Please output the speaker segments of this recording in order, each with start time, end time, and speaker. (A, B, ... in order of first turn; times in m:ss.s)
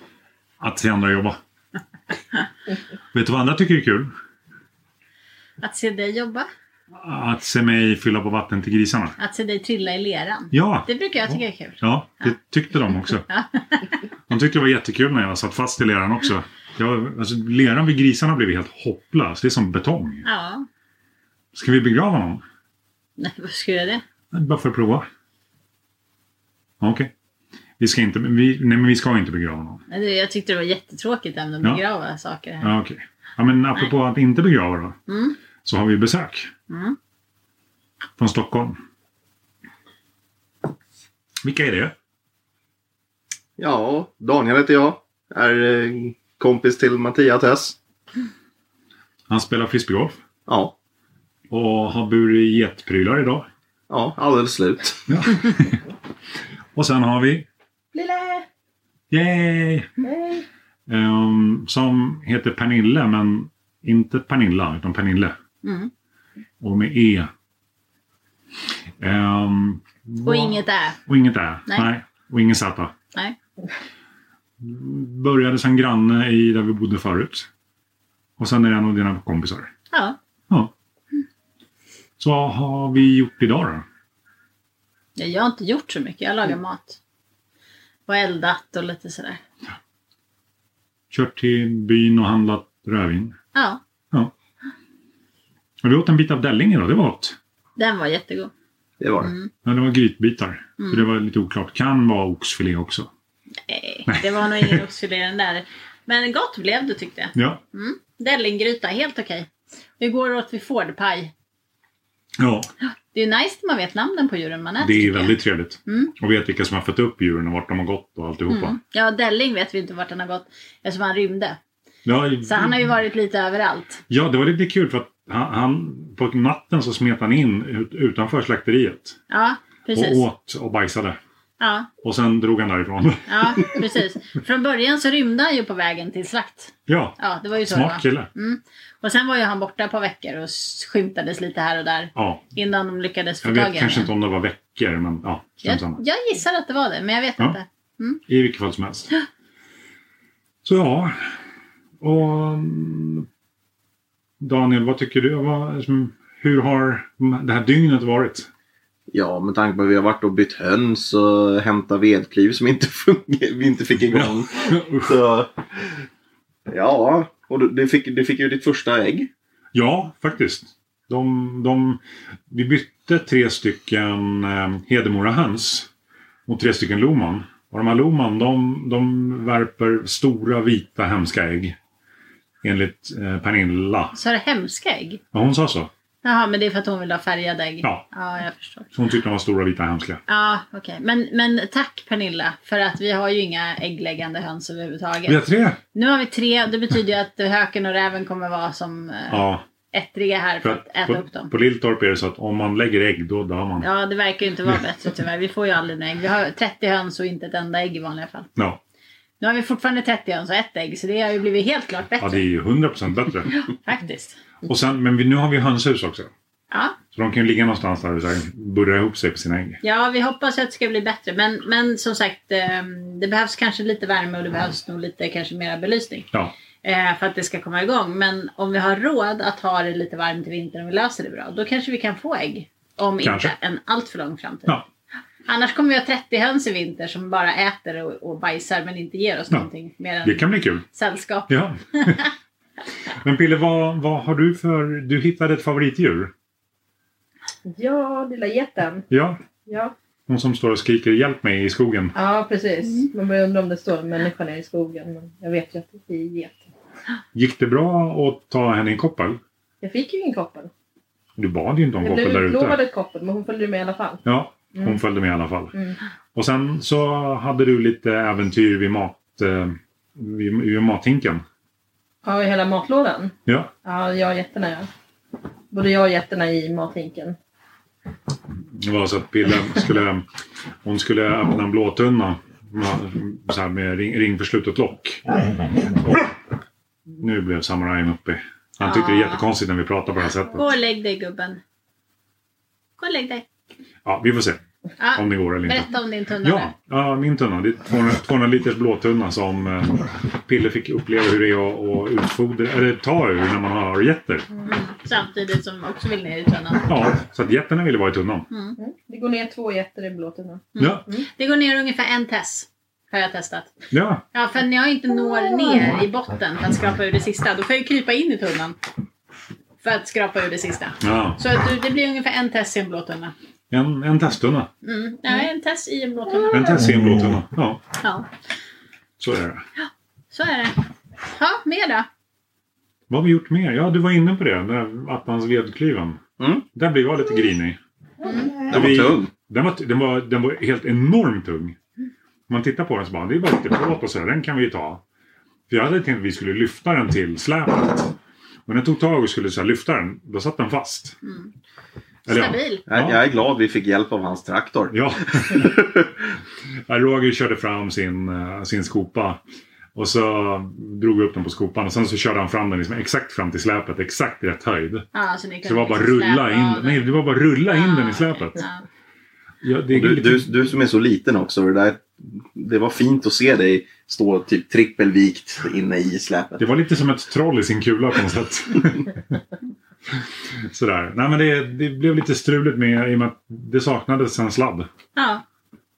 0:00.6-0:01.4 A
0:03.1-0:04.1 A
0:05.6-0:06.5 B
0:06.9-0:09.2 A
0:09.2-0:12.3 B
0:10.5-0:13.2 A
0:13.3-0:14.0 B
0:14.3-0:20.2 A
0:20.2-0:20.7 B
0:21.5-0:22.4 A
0:23.2-0:24.0 B
0:24.3-0:25.1 A
0:26.8-0:27.1 A
0:27.8-0:29.8 A
0:29.9-0:32.7 B
0:32.6-0:35.0 A
0:35.1-0:35.4 B
0:35.6-0:36.5 A
0:36.7-0:37.0 B
0:38.2-0:38.8 A
0:41.4-0:41.9 A
0:43.6-0:47.8 C
0:49.3-0:50.2 A
0:50.5-0:50.7 C
0:51.5-0:53.4 A
0:53.9-0:55.2 C
0:55.1-0:55.8 A
0:56.7-0:57.4 A
0:58.0-0:58.3 B
0:59.1-0:59.9 A
1:00.0-1:00.4 D
1:00.9-1:05.3 A
1:05.6-1:05.9 B
1:06.6-1:07.3 A
1:09.0-1:10.5 A
1:10.2-1:11.0 B
1:11.0-1:12.9 A
1:14.6-1:17.5 A
1:18.4-1:19.7 A
1:19.9-1:20.2 B
1:22.2-1:23.8 A
1:25.2-1:27.0 B
1:28.1-1:29.4 B
1:31.1-1:33.4 A
1:33.5-1:33.8 B
1:35.8-1:37.4 A
1:37.8-1:38.5 B
1:39.0-1:39.3 C
1:39.2-1:39.5 B
1:39.6-1:43.1 A
1:40.8-1:41.0 B
1:43.7-1:51.3 B
1:44.1-1:44.8 A
1:47.3-1:47.6 A
1:52.4-1:52.7 A
1:52.8-1:55.3 B
1:54.8-1:58.8 A
1:55.8-1:56.1 B
1:58.5-2:01.6 B
2:02.0-2:02.9 A
2:02.4-2:04.0 B
2:04.1-2:09.2 A
2:09.3-2:10.2 B
2:09.9-2:11.2 A
2:11.6-2:11.9 B
2:12.0-2:13.3 A
2:13.3-2:24.1 B
2:16.9-2:18.3 A
2:22.1-2:22.4 A
2:23.4-2:26.0 A
2:25.6-2:28.2 B
2:28.3-2:29.1 A
2:30.6-2:31.1 A
2:32.0-2:33.3 A
2:34.4-2:38.5 A
2:39.1-2:45.9 C
2:44.1-2:45.1 A
2:46.7-2:49.3 C
2:49.7-2:52.0 A
2:52.5-2:55.9 A
2:56.5-3:01.8 A
3:02.6-3:04.1 A
3:04.1-3:05.2 B
3:05.3-3:05.9 A
3:06.2-3:08.9 B
3:08.9-3:10.2 A
3:10.3-3:15.4 B
3:15.3-3:15.8 A
3:15.9-3:21.5 B
3:19.3-3:19.6 A
3:20.6-3:23.9 A
3:23.8-3:28.5 B
3:29.4-3:32.4 B
3:32.2-3:33.5 A
3:33.5-3:34.4 B
3:34.6-3:36.3 A
3:36.7-3:37.0 B
3:37.1-3:39.8 A
3:39.8-3:46.3 B
3:46.8-3:54.8 B
3:53.2-3:53.5 A
3:55.5-4:01.5 B
4:00.2-4:00.8 A
4:01.5-4:02.2 A
4:03.1-4:06.3 A
4:07.6-4:09.0 D
4:09.1-4:09.4 A
4:09.6-4:09.9 D
4:10.3-4:12.1 A
4:12.1-4:16.6 D
4:17.3-4:19.4 A
4:19.8-4:20.7 D
4:21.4-4:22.8 A
4:22.0-4:24.2 D
4:24.2-4:25.7 A
4:26.3-4:31.4 A
4:32.2-4:34.9 D
4:33.4-4:33.7 A
4:35.7-4:37.4 D
4:38.8-4:40.2 A
4:40.8-4:45.3 A
4:46.0-4:46.3 A
4:47.1-4:50.6 A
4:48.8-4:49.4 B
4:50.5-4:51.6 B
4:53.0-4:53.4 B
4:54.0-4:54.6 A
4:55.0-4:56.7 B
4:55.2-4:55.9 A
4:56.4-5:04.4 A
5:04.6-5:06.9 B
5:06.9-5:08.5 A
5:08.5-5:08.8 B
5:08.8-5:11.2 D
5:10.7-5:13.7 B
5:10.8-5:11.0 A
5:13.9-5:14.2 A
5:14.3-5:18.8 B
5:19.8-5:23.3 B
5:21.0-5:21.4 A
5:23.7-5:24.7 A
5:24.8-5:26.9 B
5:26.5-5:27.8 A
5:28.0-5:28.3 B
5:29.2-5:29.6 A
5:29.8-5:32.1 B
5:33.1-5:36.2 A
5:36.4-5:36.6 C
5:36.7-5:37.8 A
5:38.2-5:38.5 B
5:38.7-5:39.3 C
5:38.7-5:41.8 A
5:42.5-5:45.0 A
5:45.7-5:48.1 A
5:48.7-5:51.2 A
5:51.2-5:51.5 B
5:52.2-5:52.8 B
5:52.2-5:53.2 A
5:52.9-5:56.1 C
5:54.9-5:55.7 A
5:56.9-5:59.4 A
6:00.0-6:05.1 A
6:05.1-6:07.0 B
6:05.6-6:08.6 A
6:07.7-6:08.8 B
6:09.6-6:10.5 A
6:09.9-6:16.6 C
6:16.6-6:19.3 A
6:20.1-6:24.9 A
6:25.1-6:25.4 B